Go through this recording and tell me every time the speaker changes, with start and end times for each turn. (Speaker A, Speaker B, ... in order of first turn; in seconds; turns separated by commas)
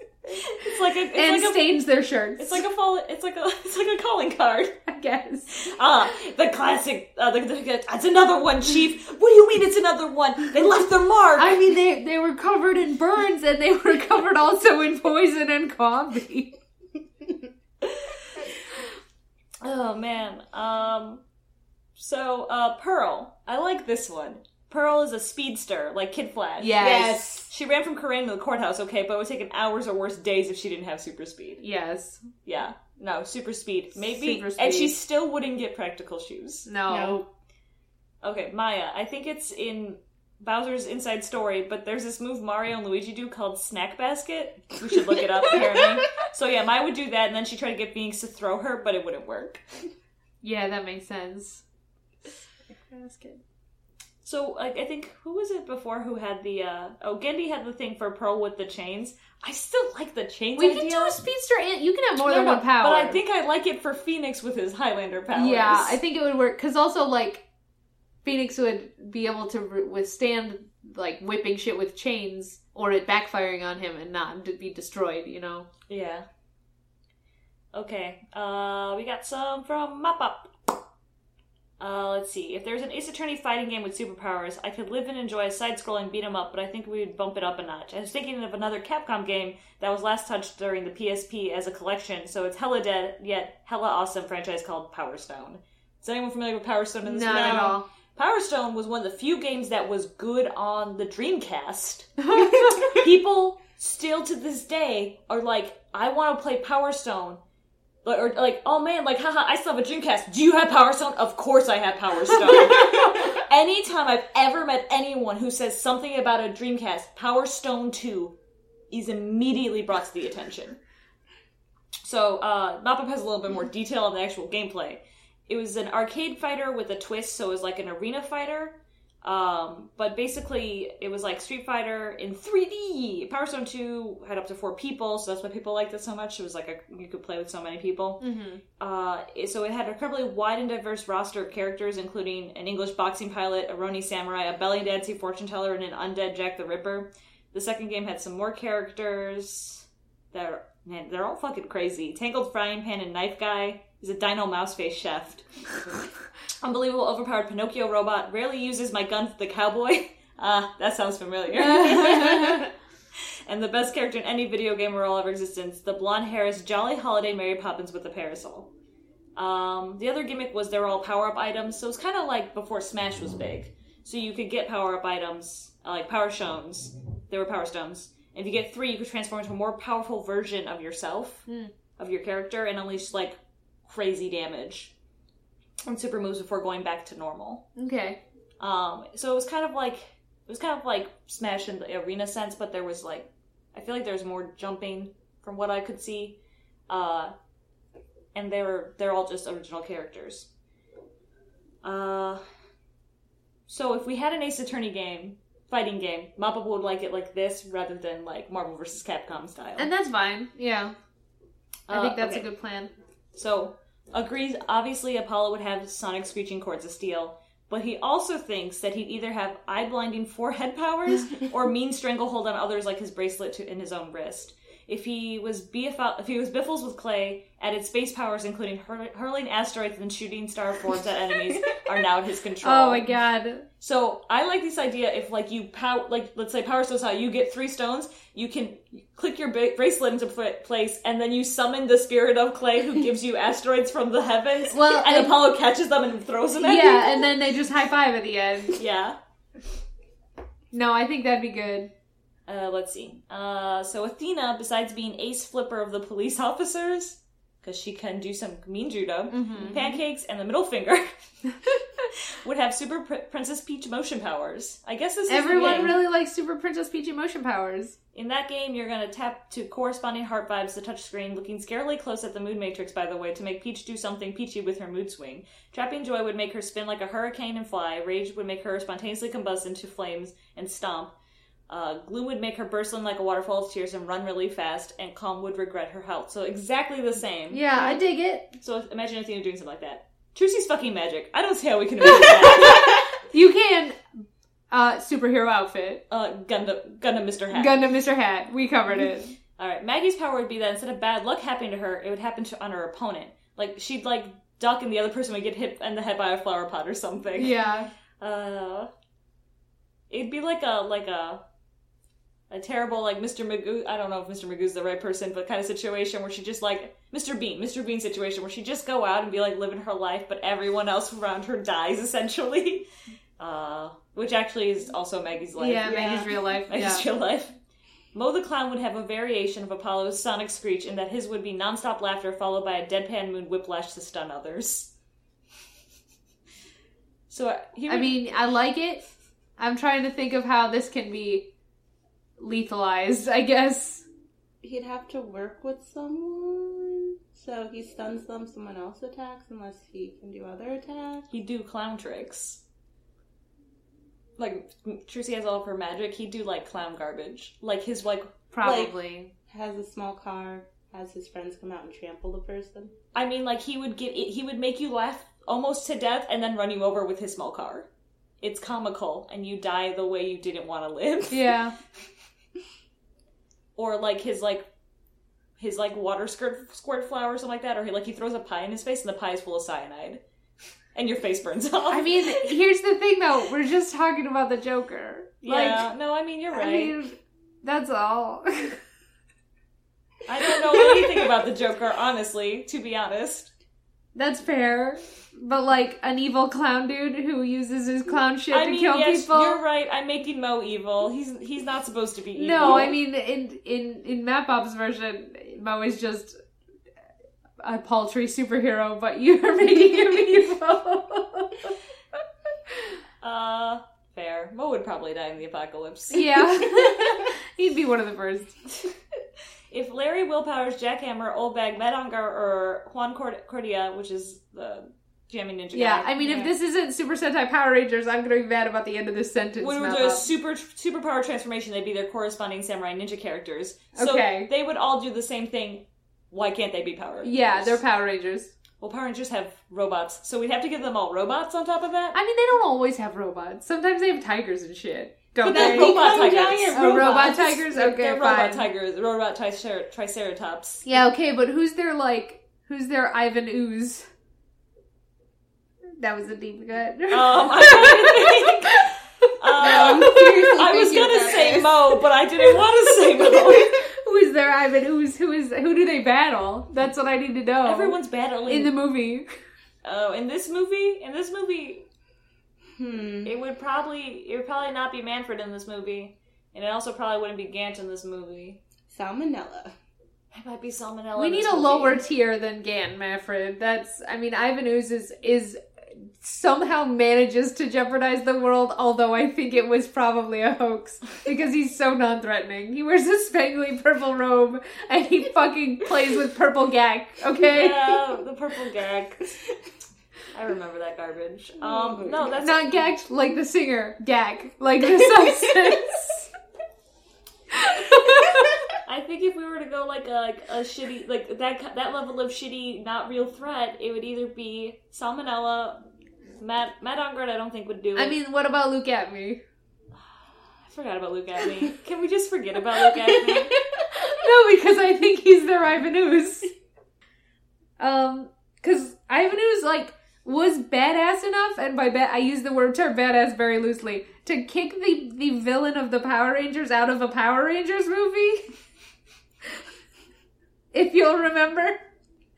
Speaker A: 0.4-1.8, Speaker B: 1.1-2.6, Speaker A: 2.4-4.8, Speaker B: 4.9-5.6, Speaker A: 5.5-11.7, Speaker B: 11.4-16.6, Speaker A: 17.8-18.1, Speaker A: 19.6-21.2, Speaker A: 22.0-26.9, Speaker B: 26.6-27.4, Speaker C: 26.8-27.5, Speaker A: 27.5-31.6, Speaker B: 31.6-32.2, Speaker A: 32.5-36.7, Speaker B: 34.0-34.9, Speaker B: 36.7-37.2, Speaker C: 36.9-37.3, Speaker A: 38.2-49.6, Speaker B: 50.4-51.6, Speaker B: 52.2-53.4, Speaker A: 54.2-61.2, Speaker B: 60.6-63.2, Speaker A: 62.2-66.0, Speaker B: 65.3-67.4, Speaker B: 68.2-75.7, Speaker A: 75.9-76.2, Speaker A: 77.7-80.5, Speaker A: 81.8-102.2, Speaker B: 97.0-97.8, Speaker C: 97.3-97.8, Speaker B: 102.2-103.0, Speaker A: 102.8-107.4, Speaker A: 108.0-118.3, Speaker A: 118.9-120.8, Speaker A: 122.0-138.2, Speaker B: 138.2-138.6, Speaker A: 138.8-156.0, Speaker A: 156.6-162.7, Speaker B: 161.6-162.7, Speaker A: 163.5-168.7, Speaker A: 169.4-181.5, Speaker B: 181.5-181.7, Speaker A: 182.0-184.9, Speaker A: 185.8-187.7, Speaker B: 187.8-188.2, Speaker A: 188.6-196.4, Speaker A: 196.9-197.3, Speaker A: 198.3-200.5, Speaker A: 201.8-202.4, Speaker A: 203.7-209.9, Speaker B: 209.8-210.9, Speaker A: 211.9-212.5, Speaker B: 211.9-212.9, Speaker A: 213.3-233.1, Speaker B: 232.6-233.7, Speaker A: 233.8-247.3, Speaker B: 244.7-245.4, Speaker B: 246.6-248.8, Speaker A: 248.8-249.2, Speaker B: 250.7-251.9, Speaker A: 252.5-261.1, Speaker B: 259.3-259.9, Speaker C: 259.6-259.9, Speaker A: 262.1-266.0, Speaker B: 265.3-268.0, Speaker C: 265.5-266.0, Speaker A: 268.1-281.1, Speaker A: 281.7-287.8, Speaker B: 287.5-288.5, Speaker A: 288.6-293.0, Speaker B: 292.1-296.0, Speaker A: 296.1-297.8, Speaker B: 297.5-299.3, Speaker A: 299.6-307.6, Speaker B: 307.4-307.9, Speaker A: 308.2-308.9, Speaker A: 310.1-311.4, Speaker A: 312.5-322.9, Speaker A: 323.4-327.6, Speaker B: 325.6-327.1, Speaker C: 325.8-326.3, Speaker A: 328.1-334.9, Speaker A: 337.3-338.2, Speaker B: 337.9-339.0, Speaker B: 339.6-341.5, Speaker B: 342.4-344.1, Speaker C: 344.6-351.3, Speaker A: 351.3-352.6, Speaker A: 354.4-358.3, Speaker B: 358.5-359.3, Speaker C: 358.6-358.9, Speaker C: 359.5-362.9, Speaker A: 363.1-367.9, Speaker A: 368.4-371.5, Speaker B: 371.3-371.8, Speaker A: 373.8-374.6, Speaker A: 375.6-380.2, Speaker A: 380.9-382.6, Speaker B: 381.9-385.9, Speaker A: 385.4-387.0, Speaker B: 386.5-388.8, Speaker A: 390.3-393.5, Speaker B: 394.1-399.6, Speaker A: 398.5-403.0, Speaker B: 402.4-406.4, Speaker B: 407.6-411.7, Speaker A: 413.2-416.3, Speaker B: 416.1-418.6, Speaker A: 419.7-426.1, Speaker B: 425.7-430.2, Speaker C: 426.2-426.5, Speaker A: 429.6-437.8, Speaker B: 433.9-434.5, Speaker B: 437.2-438.5, Speaker A: 438.8-442.2, Speaker B: 442.1-446.2, Speaker A: 445.4-450.9, Speaker C: 445.4-447.6, Speaker B: 446.7-448.7, Speaker B: 450.9-454.1, Speaker B: 456.0-458.9, Speaker A: 457.1-463.7, Speaker B: 459.6-460.6, Speaker C: 459.6-461.9, Speaker B: 463.6-468.0, Speaker A: 467.6-468.8, Speaker B: 468.5-469.3, Speaker A: 469.8-471.8, Speaker C: 472.8-473.3, Speaker A: 473.2-478.6, Speaker C: 478.9-479.7, Speaker A: 480.3-482.0, Speaker B: 481.2-497.9, Speaker A: 497.4-499.4, Speaker A: 500.3-502.8, Speaker C: 501.6-502.4, Speaker B: 502.4-506.3, Speaker B: 507.5-508.6, Speaker A: 508.9-515.8, Speaker A: 516.4-518.2, Speaker B: 518.0-519.4, Speaker A: 520.6-523.5, Speaker B: 523.0-526.5, Speaker B: 527.8-538.5, Speaker B: 540.7-541.8